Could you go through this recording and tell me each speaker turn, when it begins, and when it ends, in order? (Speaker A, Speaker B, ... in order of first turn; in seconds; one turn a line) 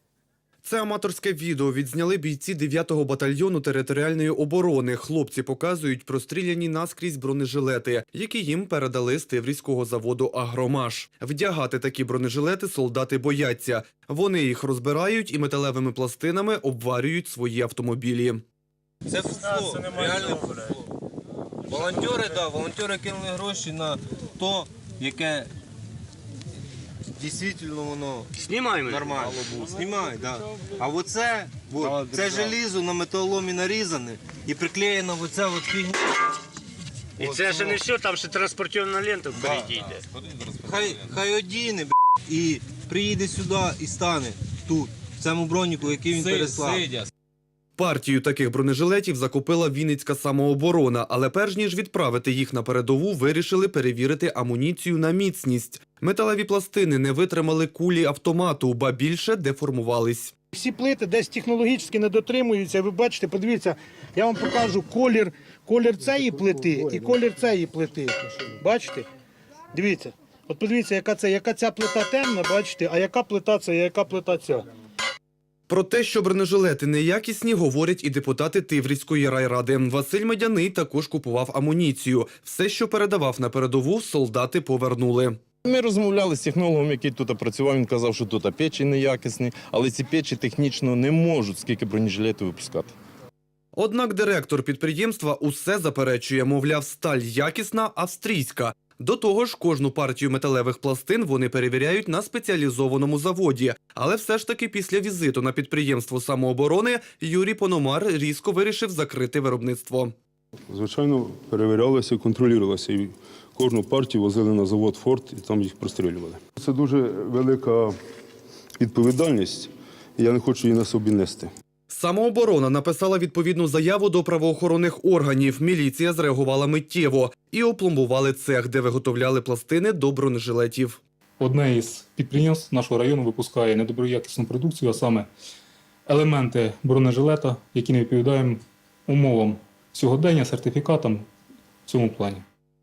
Speaker A: 0.6-18.4
Speaker B: 19.1-20.8
Speaker B: 21.7-25.5
Speaker B: 27.1-36.0
Speaker C: 28.4-29.0
Speaker D: 29.1-29.7
Speaker D: 31.8-32.5
Speaker B: 37.2-37.9
Speaker C: 37.2-39.9
Speaker B: 39.3-39.8
Speaker D: 39.4-41.1
Speaker B: 40.6-46.9
Speaker D: 46.1-47.0
Speaker A: 47.8-60.3
Speaker E: 60.5-69.0
Speaker E: 69.7-74.6
Speaker A: 75.7-85.4
Speaker D: 85.6-92.9
Speaker A: 93.7-110.1
Speaker F: 110.7-117.9
Speaker F: 118.8-121.5
Speaker A: 121.9-131.0
Speaker G: 131.4-135.3
Speaker G: 136.1-141.2
Speaker G: 141.9-142.4